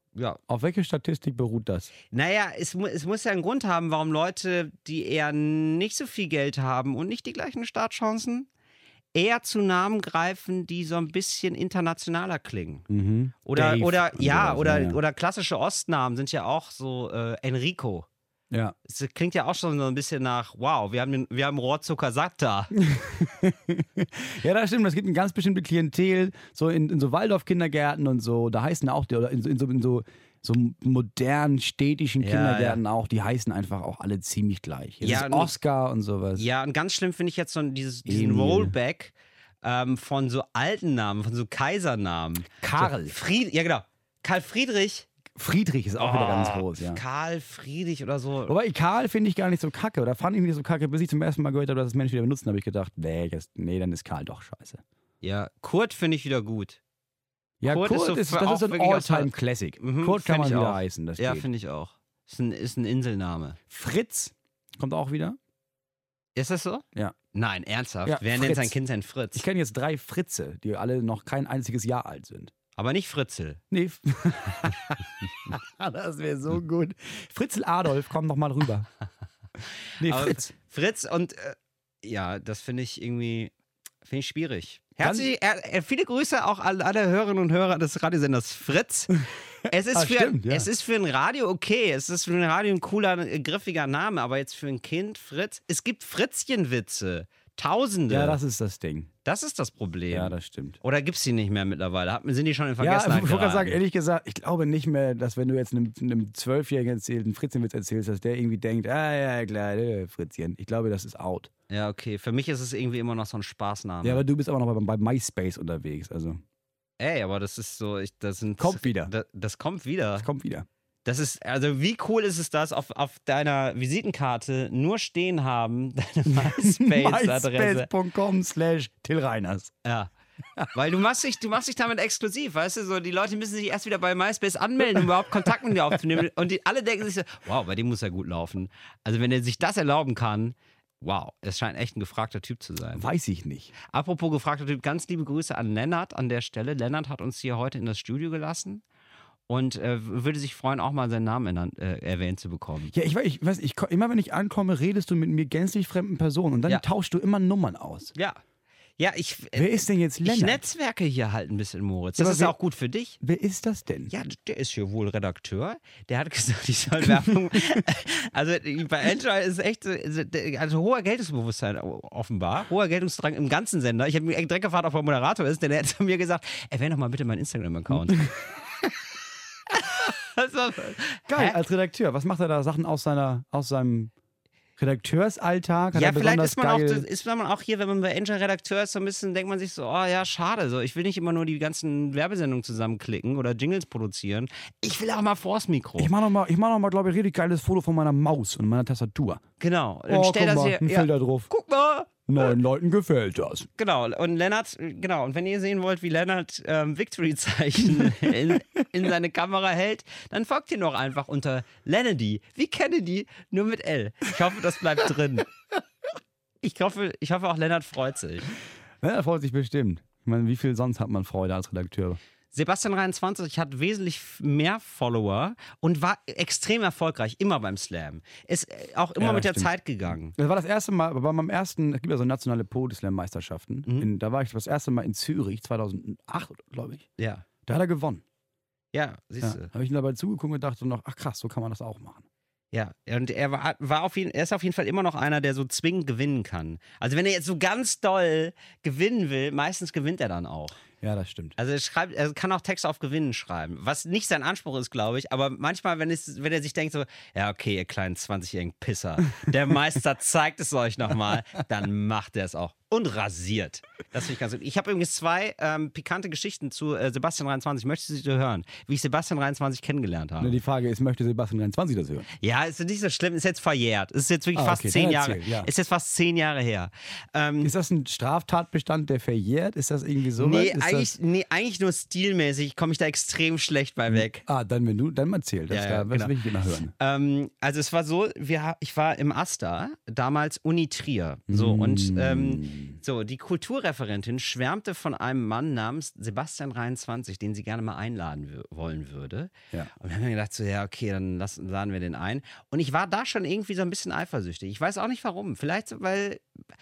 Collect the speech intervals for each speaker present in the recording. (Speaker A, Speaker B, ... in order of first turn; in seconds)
Speaker A: 0.1-0.4, 2.1-8.5, 9.1-12.9, 13.4-18.1, 18.9-22.8, 32.2-32.8, 35.0-35.5, 36.4-45.1, 46.0-48.5, 55.2-56.8, 57.7-63.6, 66.4-69.4, 72.8-73.6, 80.0-83.5, 84.0-98.4, 99.2-103.8, 111.7-114.2, 117.0-120.3, 121.0-127.9, 130.7-143.1, 143.8-148.8, 149.5-152.9, 158.2-158.4, 159.0-163.2, 164.1-178.3, 179.7-181.6, 185.9-196.1, 199.6-202.1, 203.8-215.5, 216.6-218.5, 222.5-230.3, 237.2-237.4, 238.9-239.7, 242.7-250.8, 251.6-270.6, 272.4-277.7, 280.4-284.4, 285.7-286.3, 286.9-306.4
Speaker B: 0.5-1.9, 12.9-15.0, 18.5-18.8, 22.8-36.5, 38.1-38.8, 42.6-43.2, 45.4-47.0, 48.5-54.8, 57.6-61.5, 63.7-65.4, 68.1-68.8, 69.3-72.5, 73.7-78.9, 80.0-80.5, 85.0-85.3, 89.9-90.7, 98.1-99.1, 100.1-100.8, 102.8-111.5, 114.0-116.4, 118.6-119.1, 120.2-120.7, 126.3-129.7, 135.0-135.2, 142.9-143.7, 152.9-158.2, 159.5-160.7, 162.2-162.6, 163.2-164.1, 177.9-178.3, 181.3-184.1, 184.8-187.1, 196.0-199.4, 200.1-201.5, 202.3-203.7, 219.0-222.2, 229.2-229.7, 230.3-237.1, 237.7-238.2, 239.4-242.2, 251.0-251.6, 270.4-272.3, 274.6-275.7, 277.6-281.1, 284.1-286.9, 291.5-293.0